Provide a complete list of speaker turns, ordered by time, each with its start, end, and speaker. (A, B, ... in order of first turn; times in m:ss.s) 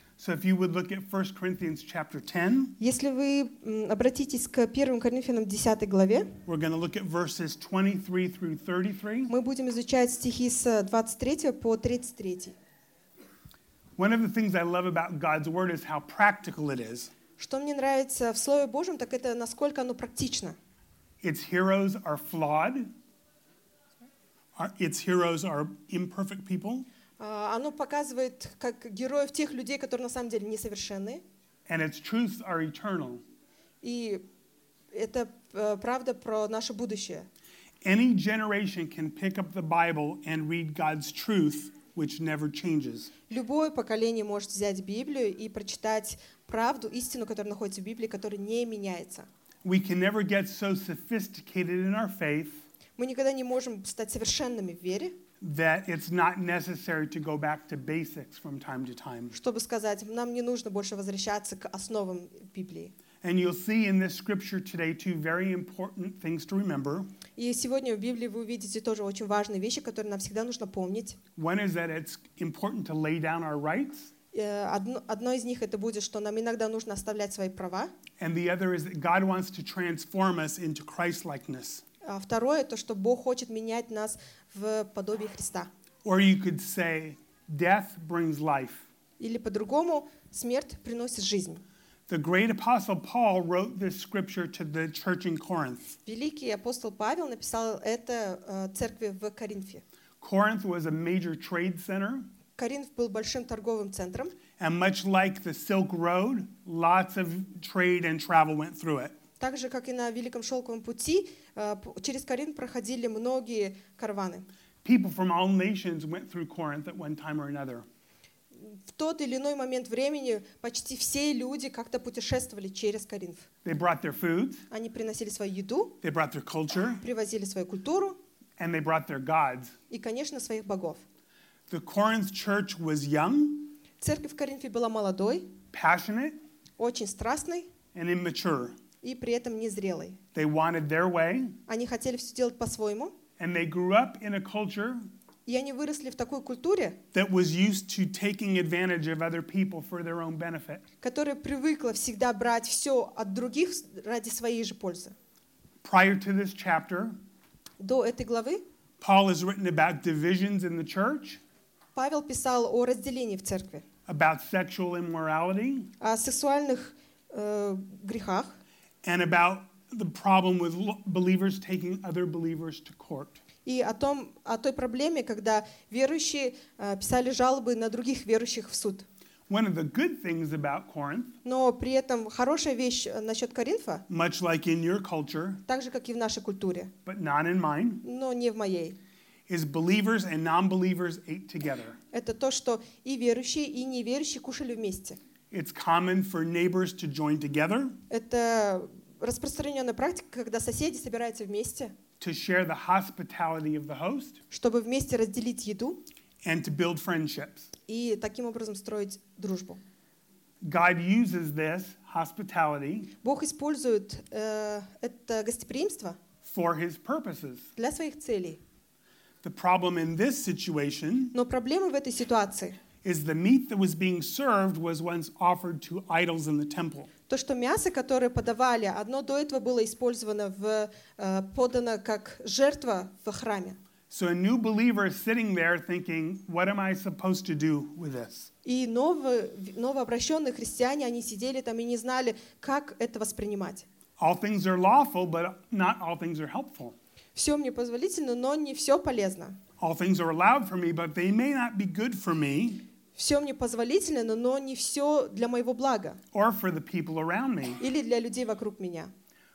0:00.2-0:02.8 A
0:02.8-0:06.4 B
0:06.5-0:09.3 A
0:09.3-0:12.5 B
0:14.0-0:17.1 A
0:17.4-0:20.6 B
0:21.2-0:22.9 A
0:24.6-0:26.8 A
0:27.2-0:31.2 B
0:31.7-0:33.2 A
0:33.8-0:34.2 B
0:34.9-0:37.3 B
0:37.8-0:43.1 A
0:43.3-0:49.3 B
0:49.6-0:52.6 A
0:53.0-0:55.1 B
0:55.4-0:59.3 A
0:59.3-1:02.9 B
1:03.2-1:07.1 A
1:07.4-1:11.2 B
1:11.4-1:14.1 A
1:14.3-1:17.9 B
1:18.2-1:21.8 A
1:22.0-1:25.7 B
1:26.0-1:28.8 A
1:29.2-1:31.6 B
1:32.1-1:36.0 A
1:36.0-1:39.8 B
1:40.2-1:42.3 A
1:42.6-1:44.4 B
1:44.6-1:49.1 A
1:49.4-1:54.4 B
1:54.8-1:57.9 A
1:58.6-2:03.5 B
2:03.6-2:04.7 A
2:04.7-2:06.0 B
2:06.0-2:07.0 A
2:07.0-2:08.2 B
2:08.6-2:09.7 A
2:09.9-2:11.0 B
2:11.7-2:13.7 A
2:14.0-2:15.5 B
2:15.7-2:16.4 A
2:16.8-2:17.7 B
2:17.9-2:18.8 A
2:19.0-2:20.2 B
2:20.3-2:21.6 A
2:21.7-2:23.1 B
2:23.4-2:25.0 A
2:25.4-2:27.0 B
2:27.1-2:30.8 A
2:31.0-2:35.2 B
2:35.8-2:37.2 A
2:37.8-2:38.6 B
2:39.0-2:41.4 A
2:41.9-2:43.8 B
2:44.1-2:45.9 A
2:46.0-2:48.6 B
2:49.0-2:53.4 A
2:53.6-2:59.1 B
2:59.5-3:01.3 A
3:01.4-3:04.1 B
3:04.1-3:05.6 A
3:05.7-3:06.9 B
3:07.1-3:08.0 A
3:08.0-3:09.0 B
3:09.5-3:12.0 A
3:12.1-3:15.2 B
3:15.5-3:18.0 A
3:18.1-3:21.9 B
3:22.2-3:24.4 A
3:24.5-3:26.0 B
3:26.4-3:27.7 A
3:27.9-3:29.8 B
3:30.6-3:33.1 A
3:33.2-3:36.2 B
3:36.4-3:37.7 A
3:37.8-3:38.6 B
3:39.4-3:41.3 A
3:41.3-3:42.8 B
3:43.0-3:47.1 A
3:47.3-3:53.8 B
3:54.1-3:58.5 A
3:58.6-4:03.8 B
4:04.2-4:06.9 A
4:07.3-4:09.6 B
4:09.8-4:12.8 A
4:13.1-4:16.2 B
4:16.3-4:17.8 A
4:17.8-4:19.1 B